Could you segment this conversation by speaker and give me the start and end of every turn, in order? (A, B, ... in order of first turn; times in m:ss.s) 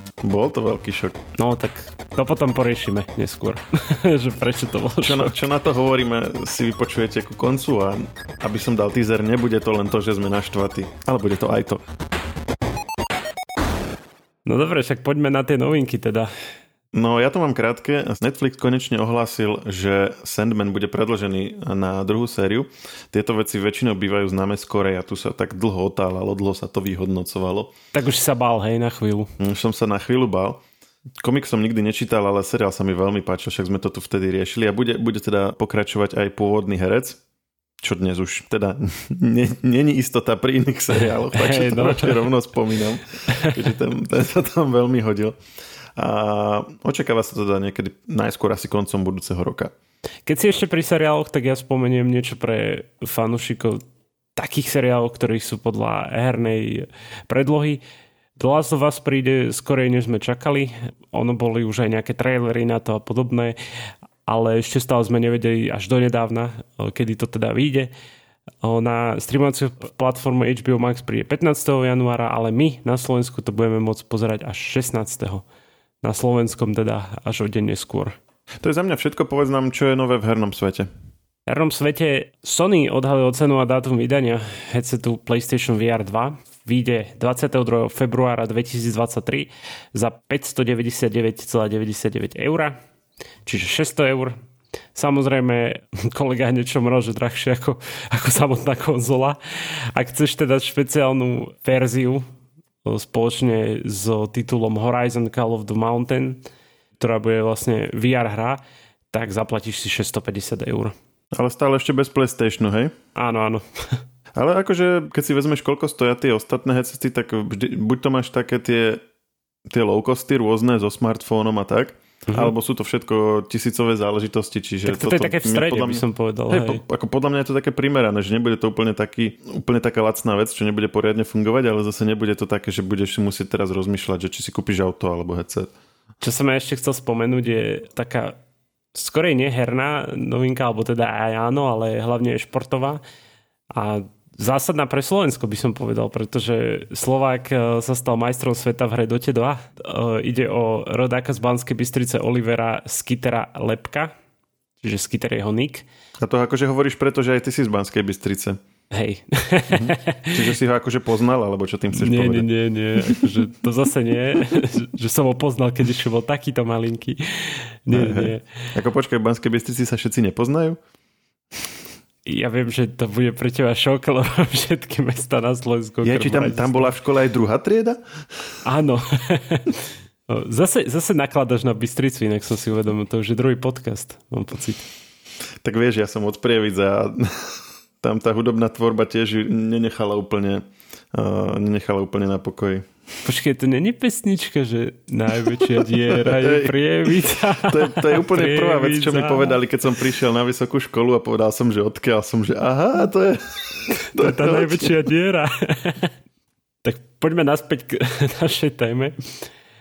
0:00.2-0:01.2 A
0:01.4-0:05.3 B
0:05.0-0:11.8 A
0:14.4-0:16.3 B
0:16.9-0:27.7 A
0:27.9-0:29.3 B
0:29.4-0:30.6 A
0:31.2-0:37.2 A
0:37.8-0:45.4 A
0:41.3-0:42.3 B
0:43.3-0:43.6 B
0:46.0-0:49.7 A
0:50.3-0:53.8 B
0:54.4-0:57.8 B
0:58.4-1:03.6 B
1:04.2-1:07.9 B
1:08.6-1:15.4 B
1:16.0-1:18.2 B
1:18.6-1:20.9 A
1:21.5-1:32.8 B
1:33.5-1:34.3 B
1:35.0-1:42.2 B
1:42.8-1:46.4 B
1:47.0-1:48.6 B
1:49.1-1:50.9 B
1:51.3-1:52.9 A
1:53.2-1:54.0 B
1:54.4-1:59.0 A
1:59.7-2:15.7 A
2:02.3-2:02.5 B
2:04.9-2:06.8 B
2:16.2-2:18.4 B
2:18.9-2:23.0 B
2:23.7-2:34.1 B
2:34.8-2:35.8 B
2:36.2-2:38.6 A
2:38.9-2:40.5 B
2:39.7-2:43.5 A
2:41.9-2:48.5 B
2:47.9-2:50.8 A
2:52.2-2:56.9 B
2:56.0-2:58.0 A
2:58.6-3:04.9 B
3:05.6-3:12.9 A
3:13.2-3:19.6 B
3:15.4-3:25.0 A
3:24.1-3:26.1 B
3:26.8-3:29.2 B